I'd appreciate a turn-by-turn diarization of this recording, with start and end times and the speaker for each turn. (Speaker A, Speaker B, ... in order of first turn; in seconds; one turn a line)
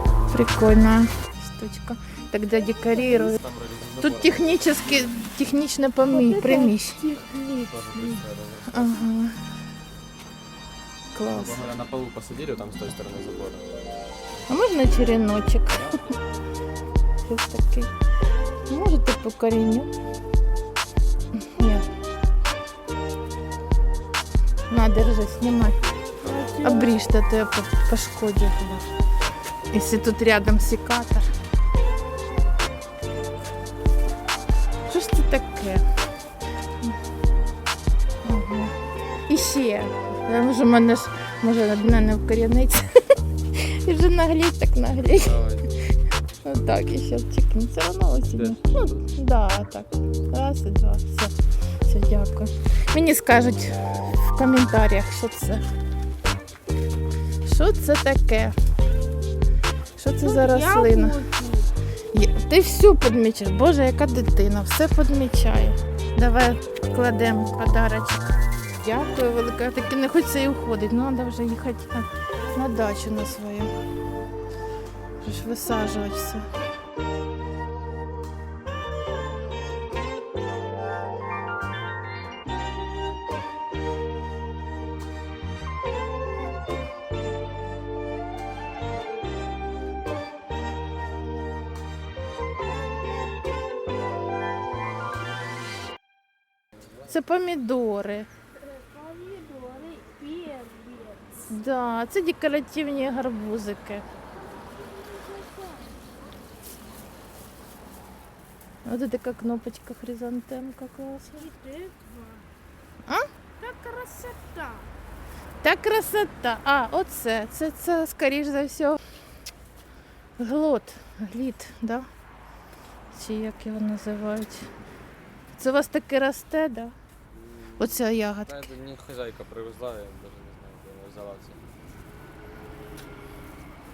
Speaker A: 0.3-3.4
Speaker B: 2.6-3.3
Speaker C: 3.2-5.2
Speaker A: 4.0-7.0
Speaker B: 6.0-8.2
Speaker C: 7.4-9.1
Speaker A: 8.7-9.4
Speaker A: 11.1-11.6
Speaker C: 11.3-13.7
Speaker A: 14.5-15.9
Speaker C: 15.7-16.2
Speaker A: 17.2-17.9
Speaker A: 18.7-19.9
Speaker A: 21.6-21.9
Speaker A: 24.7-25.8
Speaker C: 25.6-26.3
Speaker B: 26.2-26.9
Speaker A: 26.6-28.9
Speaker A: 29.7-31.3
Speaker A: 34.9-35.9
Speaker A: 38.2-38.7
Speaker A: 39.3-45.4
Speaker C: 45.1-45.7
Speaker A: 46.4-51.3
Speaker C: 48.3-49.0
Speaker A: 51.9-55.6
Speaker A: 57.4-58.5
Speaker A: 60.0-61.2
Speaker B: 60.2-61.7
Speaker A: 62.1-73.7
Speaker A: 75.2-76.5
Speaker A: 97.1-98.3
Speaker B: 98.6-101.4
Speaker A: 101.5-104.0
Speaker B: 104.5-106.0
Speaker A: 108.8-111.4
Speaker B: 111.3-112.5
Speaker B: 113.6-114.9
Speaker A: 115.6-119.0
Speaker A: 120.4-122.1
Speaker A: 123.1-124.7
Speaker A: 125.6-126.9
Speaker C: 127.3-131.6
Speaker A: 127.8-128.6